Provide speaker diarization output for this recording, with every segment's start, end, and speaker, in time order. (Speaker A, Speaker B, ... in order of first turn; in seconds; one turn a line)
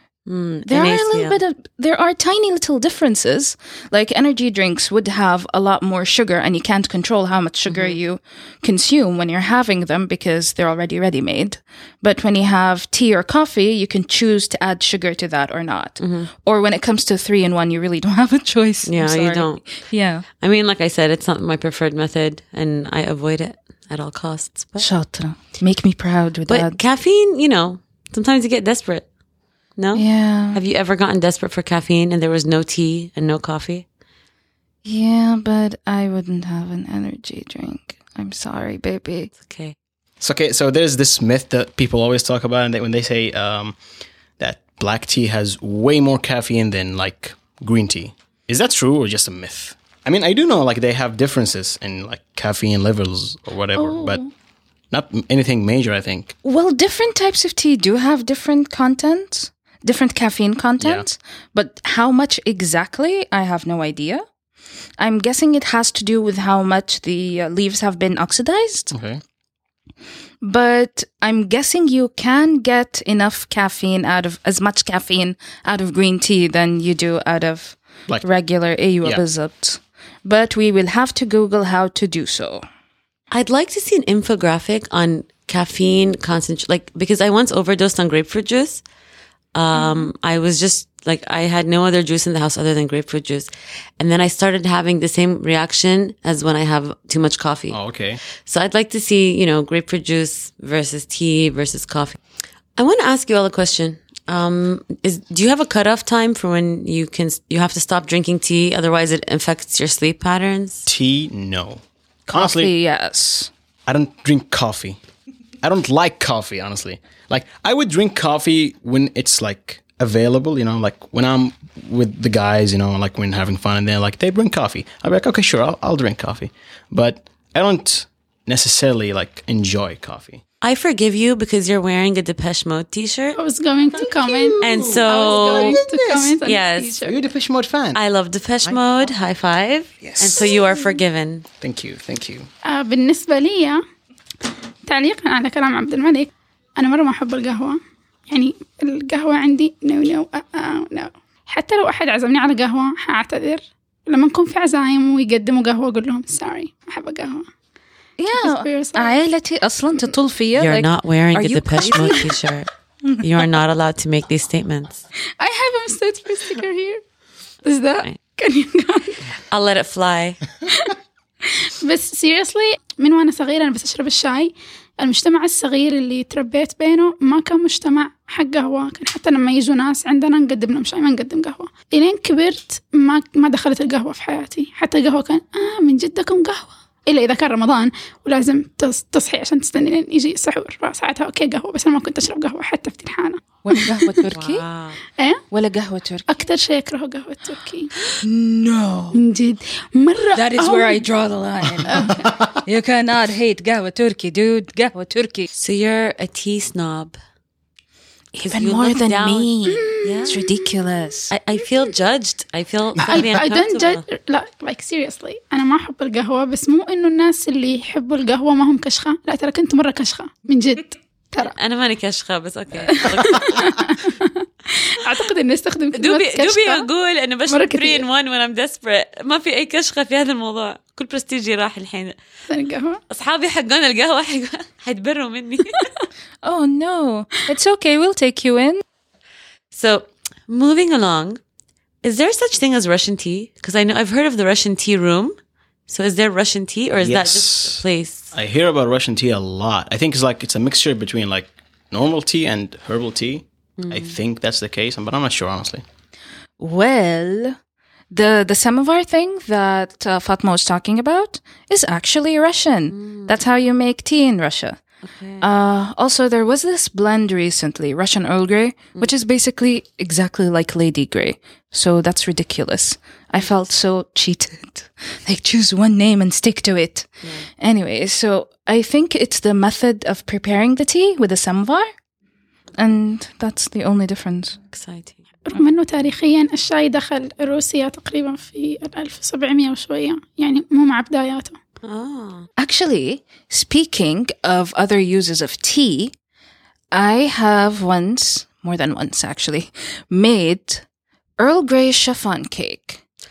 Speaker A: 0.2-1.4
Speaker B: 0.7-20.2
Speaker A: 7.7-8.0
Speaker A: 16.0-16.3
Speaker A: 18.8-19.8
Speaker A: 20.4-24.9
Speaker B: 24.8-26.8
Speaker A: 26.5-29.1
Speaker A: 29.8-33.8
Speaker B: 29.9-30.6
Speaker B: 34.8-39.3
Speaker A: 39.3-39.7
Speaker C: 40.2-43.8
Speaker C: 44.4-54.2
Speaker D: 53.7-54.3
Speaker C: 54.9-56.3
Speaker B: 56.4-64.2
Speaker C: 60.8-61.0
Speaker B: 65.0-68.9
Speaker C: 68.9-69.2
Speaker B: 70.4-82.6
Speaker A: 83.3-88.8
Speaker A: 89.5-97.8
Speaker C: 97.7-98.2
Speaker A: 98.4-102.2
Speaker A: 102.8-110.9
Speaker C: 110.8-112.7
Speaker B: 112.3-113.5
Speaker C: 113.9-115.0
Speaker C: 115.6-130.4
Speaker A: 130.6-133.4
Speaker D: 133.3-137.2
Speaker C: 133.9-136.4
Speaker A: 134.6-135.8
Speaker A: 136.4-137.0
Speaker C: 137.0-138.0
Speaker A: 137.9-141.4
Speaker C: 140.0-140.6
Speaker C: 141.6-142.5
Speaker D: 142.6-143.8
Speaker D: 144.8-157.5
Speaker B: 158.2-162.4
Speaker D: 158.3-159.2
Speaker A: 160.5-165.0
Speaker D: 165.4-167.0
Speaker D: 167.6-169.2
Speaker A: 169.4-170.4
Speaker D: 171.5-194.1
Speaker B: 193.6-194.6
Speaker A: 194.3-195.0
Speaker D: 195.2-195.4
Speaker B: 195.5-196.2
Speaker D: 196.3-197.9
Speaker B: 198.2-199.2
Speaker D: 199.1-201.0
Speaker B: 200.3-205.5
Speaker D: 201.9-202.3
Speaker A: 205.6-207.2
Speaker A: 208.3-209.5
Speaker B: 208.3-211.3
Speaker D: 209.7-210.6
Speaker A: 210.0-210.4
Speaker A: 211.3-214.0
Speaker D: 213.1-221.5
Speaker A: 221.4-223.9
Speaker D: 222.9-226.9
Speaker A: 225.9-232.2
Speaker D: 227.5-228.0
Speaker D: 232.5-233.0
Speaker A: 233.1-235.9
Speaker B: 236.4-238.8
Speaker A: 239.7-241.4
Speaker A: 242.0-248.3
Speaker C: 247.0-255.8
Speaker A: 253.8-254.2
Speaker B: 256.6-257.6
Speaker B: 258.1-264.8
Speaker A: 262.9-263.3
Speaker A: 265.0-265.4
Speaker B: 265.4-281.9
Speaker B: 282.8-284.6
Speaker A: 284.7-285.2
Speaker D: 285.4-291.6
Speaker A: 291.8-292.5
Speaker B: 292.6-296.1
Speaker B: 296.9-300.8
Speaker B: 301.4-303.0